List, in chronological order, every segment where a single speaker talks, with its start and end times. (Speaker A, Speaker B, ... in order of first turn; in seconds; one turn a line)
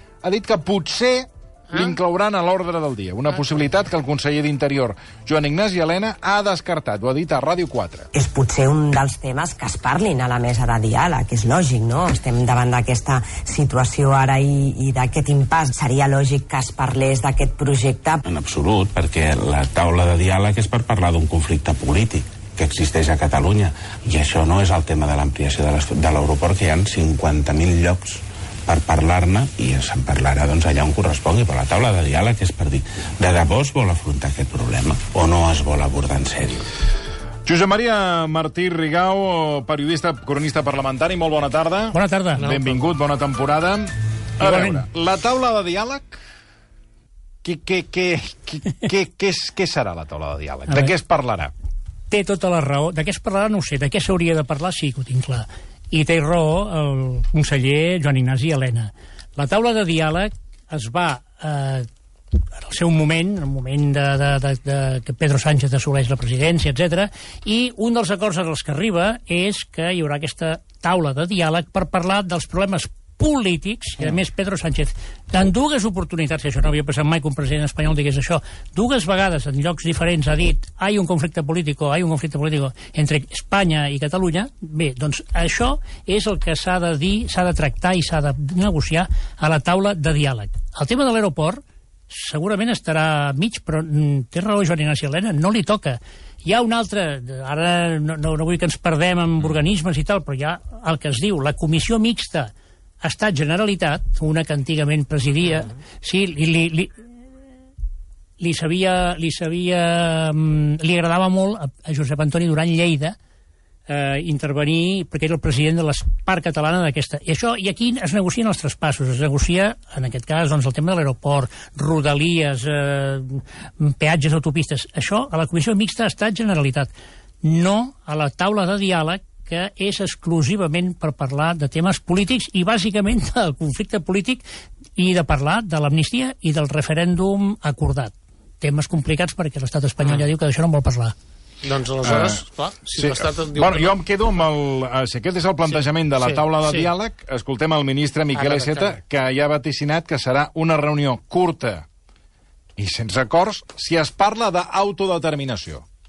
Speaker A: 0.2-8.1
Speaker B: 8.1-18.2
Speaker C: 18.2-36.7
Speaker A: 37.4-46.2
Speaker D: 41.9-42.4
Speaker D: 44.4-44.8
Speaker A: 47.4-51.5
Speaker D: 52.1-61.9
Speaker D: 62.6-102.5
Speaker D: 103.0-107.0
Speaker D: 108.4-113.1
Speaker D: 113.9-126.9
Speaker D: 127.4-134.4
Speaker D: 135.0-141.1
Speaker E: 141.6-143.9
Speaker A: 142.0-151.8
Speaker E: 146.2-146.9
Speaker E: 148.3-148.9
Speaker A: 152.8-155.8